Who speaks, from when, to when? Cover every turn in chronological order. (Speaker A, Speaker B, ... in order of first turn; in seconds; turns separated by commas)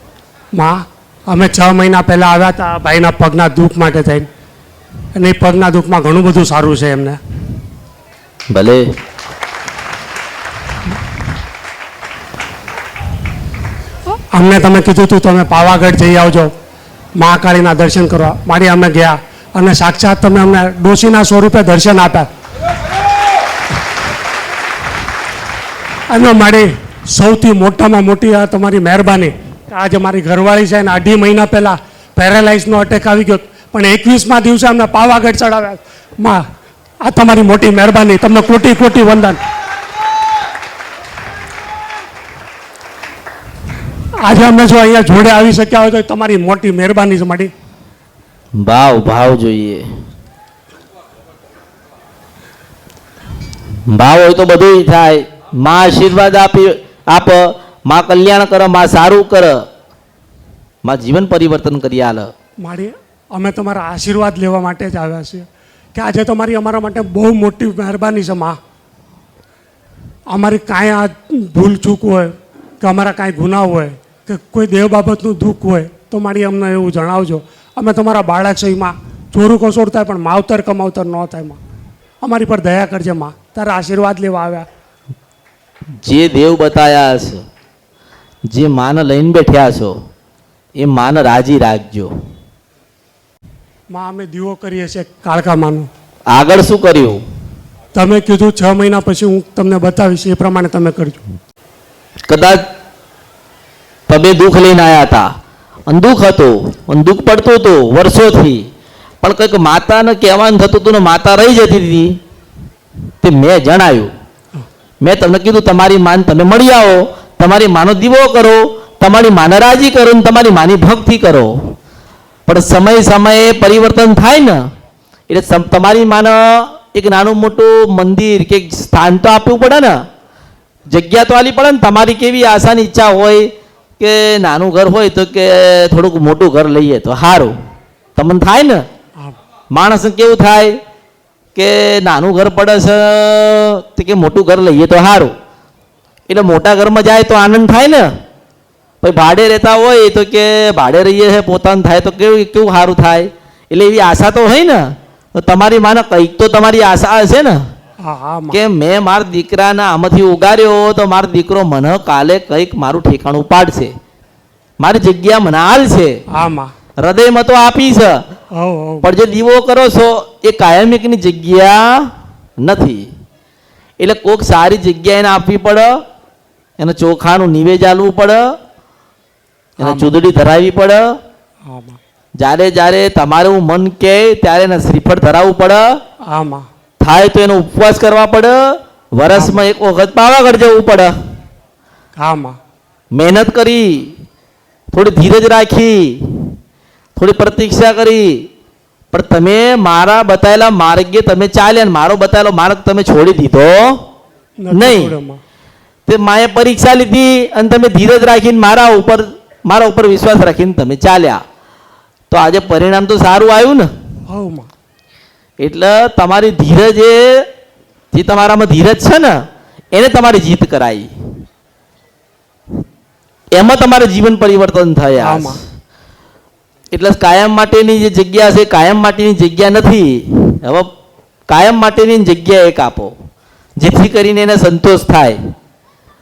Speaker A: 0.6-4.3, Speaker A: 5.2-7.2, Speaker B: 8.5-8.8, Speaker A: 14.3-16.5, Speaker A: 17.2-22.3, Speaker A: 26.1-36.4, Speaker A: 37.0-39.4, Speaker A: 44.2-47.5, Speaker B: 48.6-49.8, Speaker B: 53.9-59.6, Speaker B: 60.8-62.3, Speaker A: 62.6-68.6, Speaker A: 70.3-81.6, Speaker A: 82.2-84.7, Speaker B: 86.0-87.4, Speaker B: 88.5-89.9, Speaker B: 90.8-92.1, Speaker A: 93.9-95.9, Speaker B: 96.3-97.2, Speaker A: 98.0-101.2, Speaker B: 102.3-102.6, Speaker B: 104.1-105.3, Speaker B: 105.9-108.7, Speaker B: 109.2-112.2, Speaker B: 113.2-114.1, Speaker B: 115.0-121.5, Speaker B: 122.5-124.6, Speaker B: 125.3-130.0, Speaker B: 130.9-133.5, Speaker B: 134.0-137.5, Speaker B: 138.2-138.8, Speaker B: 139.7-140.8, Speaker B: 141.6-145.3, Speaker B: 146.3-148.1, Speaker B: 149.0-157.6, Speaker A: 158.0-158.6, Speaker B: 158.5-163.9, Speaker B: 164.8-166.2, Speaker A: 166.3-166.7, Speaker B: 167.0-168.2, Speaker A: 168.6-169.1, Speaker B: 169.0-172.1, Speaker B: 172.6-173.1, Speaker B: 174.0-176.0, Speaker B: 176.8-178.4, Speaker B: 179.8-181.0, Speaker A: 179.8-180.1, Speaker A: 181.7-182.0, Speaker B: 182.4-185.9, Speaker A: 186.3-186.6, Speaker B: 187.0-188.6, Speaker B: 189.2-191.1, Speaker A: 189.3-189.6, Speaker A: 192.2-192.6, Speaker B: 193.1-194.1, Speaker B: 194.9-196.6, Speaker B: 197.2-198.5, Speaker B: 199.1-204.1, Speaker A: 204.6-205.4, Speaker B: 204.7-205.1, Speaker B: 206.1-211.4, Speaker B: 212.3-213.9, Speaker A: 214.3-214.7, Speaker B: 215.6-217.5, Speaker B: 218.1-219.4, Speaker B: 219.9-221.1, Speaker B: 223.5-225.6, Speaker A: 225.2-225.6, Speaker B: 226.9-230.9, Speaker B: 231.5-233.1, Speaker B: 233.8-235.4